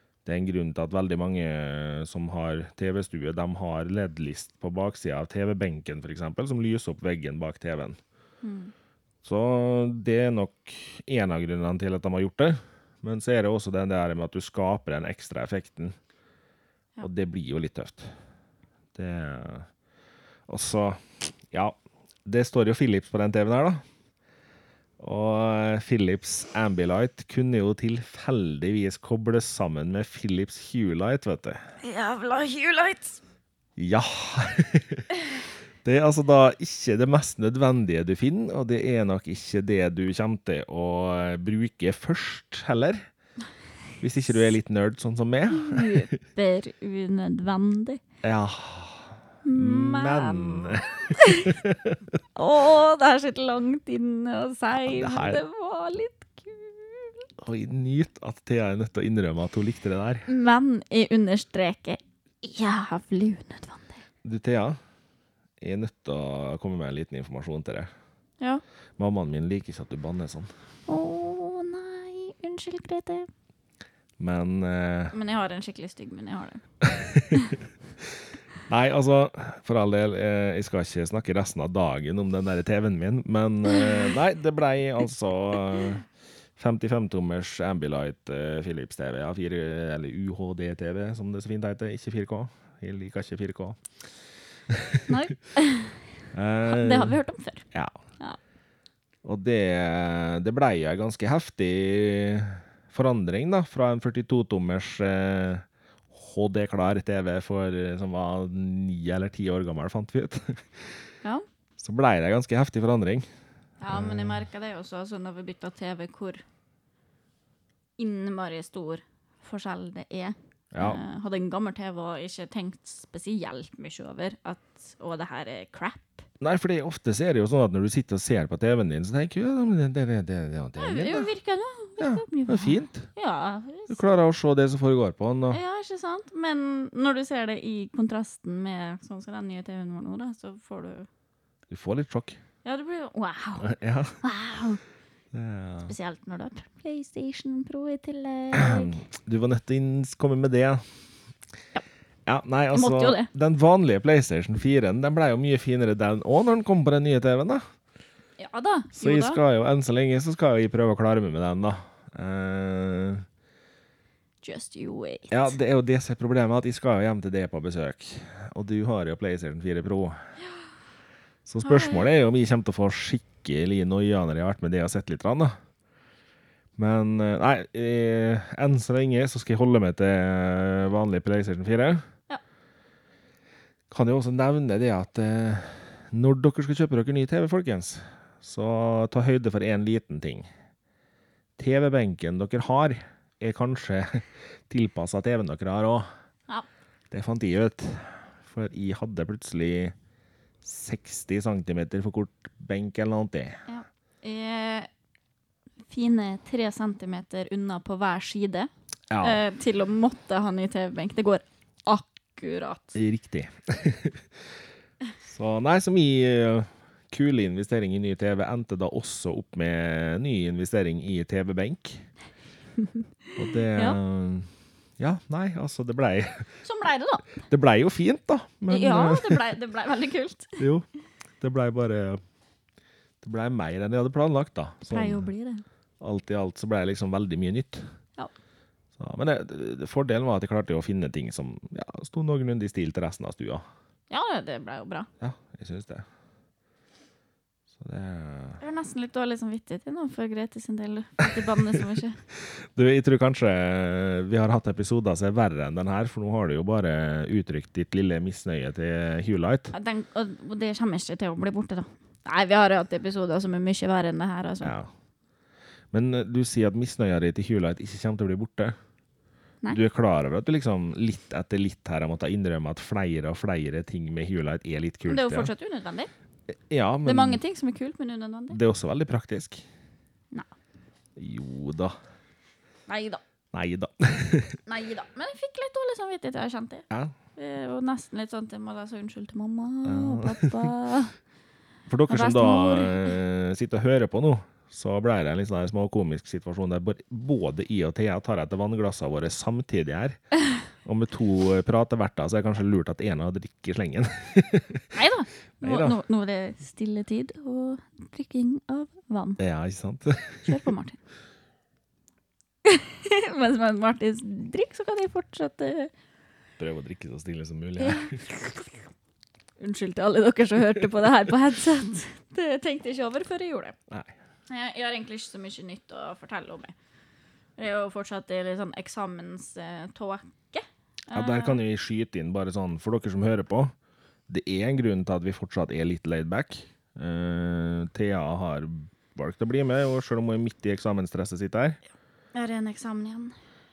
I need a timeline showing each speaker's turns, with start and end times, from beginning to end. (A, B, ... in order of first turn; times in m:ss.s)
0:00.2-0:08.0 A
0:08.4-0:08.7 B
0:09.2-0:16.0 A
0:17.0-0:18.1 A
0:18.9-0:19.7 A
0:20.5-0:23.8 A
0:25.0-0:31.6 A
0:31.8-0:33.2 B
0:33.8-0:35.1 A
0:35.8-0:43.0 A
0:44.0-0:46.0 A
0:45.5-0:48.0 B
0:48.2-0:52.2 A
0:49.4-0:51.6 B
0:52.4-0:57.3 B
0:54.9-0:55.4 A
0:57.4-1:00.3 A
1:00.3-1:04.0 B
1:04.2-1:04.8 A
1:05.6-1:07.9 A
1:09.0-1:10.5 A
1:10.9-1:13.3 B
1:14.2-1:15.1 A
1:15.1-1:16.6 B
1:16.8-1:26.0 A
1:17.3-1:17.6 B
1:26.6-1:33.8 A
1:34.7-1:35.1 A
1:35.1-1:36.0 B
1:36.3-1:37.2 A
1:36.6-1:37.6 B
1:37.7-1:38.0 A
1:39.2-1:51.0 A
1:51.8-1:53.2 A
1:53.8-1:56.4 B
1:53.9-1:54.4 A
1:58.0-2:06.2 B
2:00.7-2:01.0 A
2:06.4-2:11.3 A
2:10.8-2:14.0 B
2:12.0-2:13.1 A
2:13.9-2:15.6 A
2:15.5-2:21.1 B
2:21.7-2:22.4 A
2:22.6-2:24.8 B
2:23.6-2:24.2 A
2:25.3-2:25.9 A
2:25.8-2:29.0 B
2:28.5-2:30.8 A
2:32.2-2:37.6 A
2:32.7-2:33.3 B
2:38.4-2:39.4 B
2:38.9-2:43.2 A
2:44.4-2:45.5 B
2:45.3-2:50.2 A
2:51.4-2:55.5 A
2:51.6-2:52.0 B
2:56.8-3:02.0 A
3:03.9-3:10.5 A
3:11.6-3:16.1 A
3:17.1-3:19.9 A
3:20.6-3:23.6 A
3:23.7-3:24.9 B
3:25.9-3:28.7 B
3:29.1-3:29.4 A
3:29.2-3:33.0 B
3:32.9-3:34.4 A
3:35.2-3:42.1 A
3:43.4-3:46.5 A
3:43.7-3:44.0 B
3:46.6-3:47.4 B
3:47.5-3:49.5 A
3:48.7-3:50.6 B
3:50.6-3:50.8 A
3:51.4-3:52.2 A
3:53.2-3:55.3 A
3:54.9-3:55.6 B
3:56.0-3:57.9 A
3:59.0-4:03.6 A
4:04.1-4:05.1 B
4:05.2-4:06.0 A
4:07.7-4:08.6 A
4:08.6-4:12.2 B
4:12.4-4:19.7 A
4:19.7-4:24.7 B
4:24.6-4:24.9 A
4:25.9-4:28.7 A
4:29.7-4:35.5 A
4:35.0-4:36.1 B
4:36.5-4:37.4 A
4:37.0-4:38.6 B
4:38.5-4:39.6 A
4:41.2-4:42.0 A
4:42.9-4:43.2 B
4:43.5-4:44.6 A
4:44.6-4:51.2 B
4:49.8-4:50.6 A
4:51.9-5:00.2 A
4:52.1-4:53.2 B
5:00.8-5:04.9 A
5:04.9-5:09.4 B
5:05.6-5:06.0 A
5:09.4-5:10.6 A
5:10.4-5:11.0 B
5:12.6-5:15.9 B
5:16.6-5:18.2 A
5:17.8-5:18.5 B
5:19.6-5:23.8 B
5:24.5-5:26.7 B
5:27.6-5:31.6 B
5:31.1-5:33.7 A
5:34.3-5:41.8 A
5:42.3-5:43.3 B